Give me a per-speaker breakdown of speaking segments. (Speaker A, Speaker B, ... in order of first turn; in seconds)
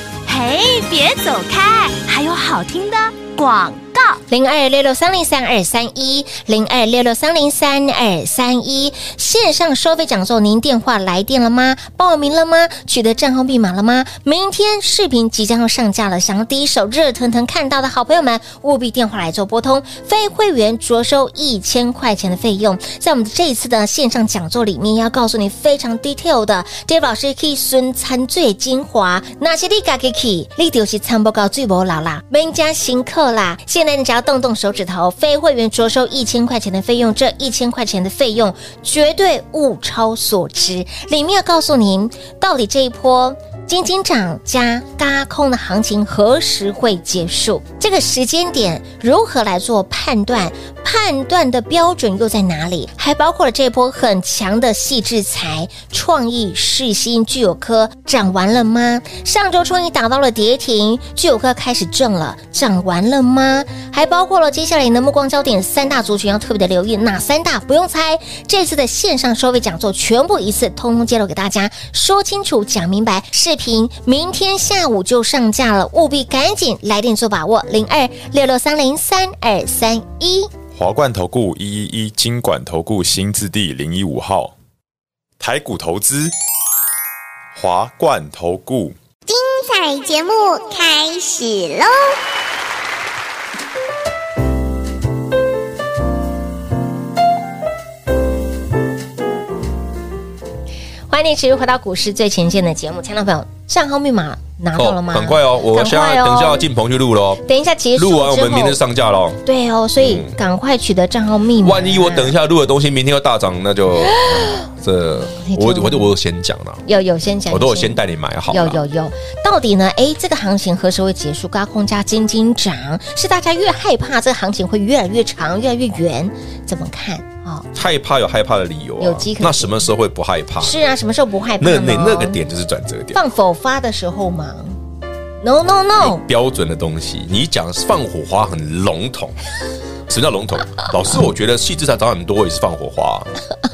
Speaker A: 0.2-4.2
Speaker B: 4.3-80.5, 101.1-106.6, 107.4-108.8, 109.4-112.3, 114.1-114.6, 115.4-116.1, 116.8-127.7, 129.0-129.8, 130.6-132.4, 133.1-134.8, 135.4-136.2
Speaker C: 80.7-84.5, 85.4-86.3, 87.5-89.0
Speaker D: 89.3-92.1
Speaker E: 104.8-107.4, 107.9-109.4, 110.0-110.3, 111.6-116.8, 117.5-118.8, 127.7-130.8, 131.6-133.2, 136.0-139.3, 140.1-143.3